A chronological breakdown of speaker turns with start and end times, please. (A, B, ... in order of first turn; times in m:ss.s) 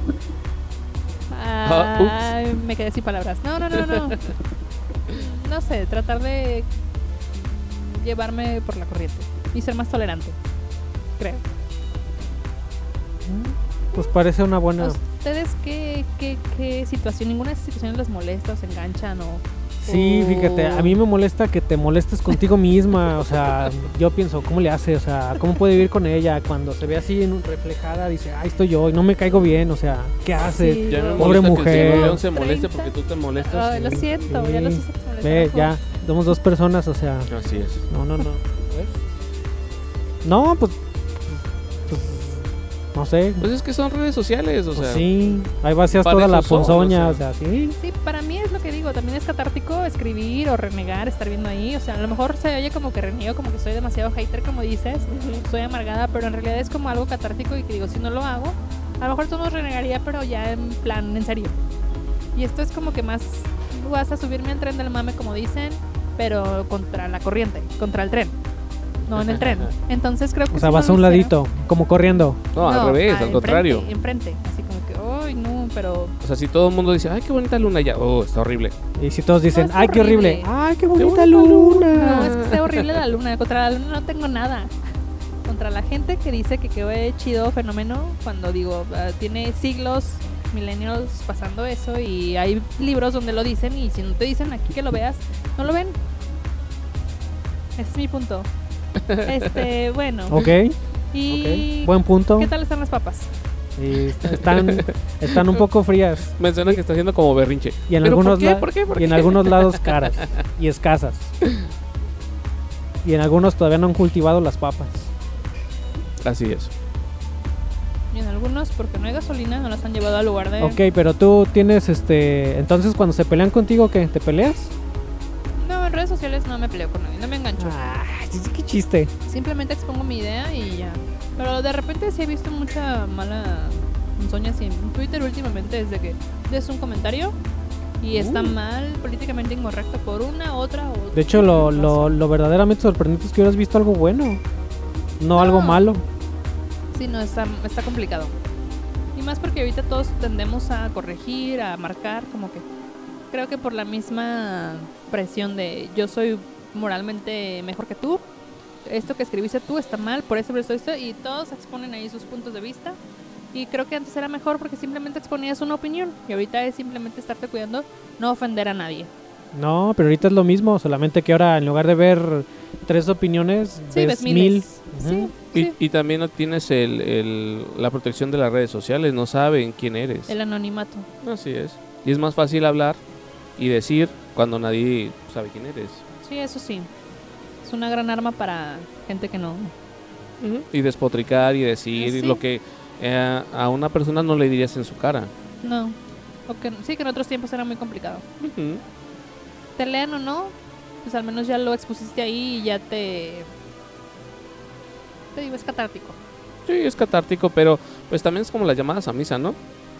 0:01.3-0:04.3 A
0:01.6-0:02.3 B
0:03.7-0:04.3 B
0:05.1-0:06.7 A
0:07.3-0:10.4 A
0:11.2-0:11.4 A
0:13.2-0:15.0 C
0:14.8-0:21.0 A
0:19.8-0:32.2 C
0:30.4-0:35.7 A
0:30.9-0:34.0 B
0:33.8-0:37.3 C
0:37.3-0:37.8 B
0:37.9-0:39.0 C
0:40.2-0:43.5 C
0:43.4-0:45.1 B
0:44.7-0:47.8 C
0:46.0-0:47.2 B
0:47.8-1:01.6 A
0:55.1-0:55.4 B
1:02.3-1:08.4 A
1:09.1-1:11.3 A
1:09.1-1:09.7 B
1:10.5-1:12.4 C
1:12.5-1:13.9 B
1:12.6-1:16.1 A
1:16.2-1:18.8 B
1:19.0-1:22.4 C
1:19.5-1:20.5 A
1:21.0-1:22.9 B
1:21.9-1:24.7 A
1:25.4-1:36.0 A
1:37.8-1:38.5 A
1:39.1-1:39.7 B
1:39.2-1:40.4 A
1:40.3-1:40.7 C
1:41.1-1:43.3 A
1:41.3-1:42.5 C
1:43.8-1:46.8 C
1:44.3-1:45.6 B
1:46.4-1:50.3 B
1:47.9-1:51.3 C
1:53.0-1:55.1 C
1:56.2-1:56.7 B
1:58.1-2:00.8 A
2:00.6-2:04.7 C
2:05.6-2:07.8 A
2:07.6-2:09.1 C
2:09.3-2:17.4 A
2:18.0-2:22.2 A
2:18.1-2:18.6 C
2:21.1-2:24.4 C
2:25.2-2:26.0 C
2:25.3-2:25.9 A
2:26.9-2:28.3 A
2:29.1-2:32.6 A
2:33.3-2:38.2 A
2:38.8-2:43.0 A
2:43.5-2:49.1 A
2:49.5-2:55.3 C
2:53.9-2:55.7 A
2:55.5-3:00.3 B
3:00.3-3:01.1 A
3:01.2-3:03.0 B
3:03.6-3:06.0 B
3:06.2-3:06.9 A
3:07.6-3:09.7 A
3:10.4-3:15.3 B
3:12.0-3:12.4 A
3:15.6-3:18.2 A
3:18.4-3:18.8 B
3:19.8-3:23.5 A
3:25.3-3:26.2 A
3:26.6-3:29.6 B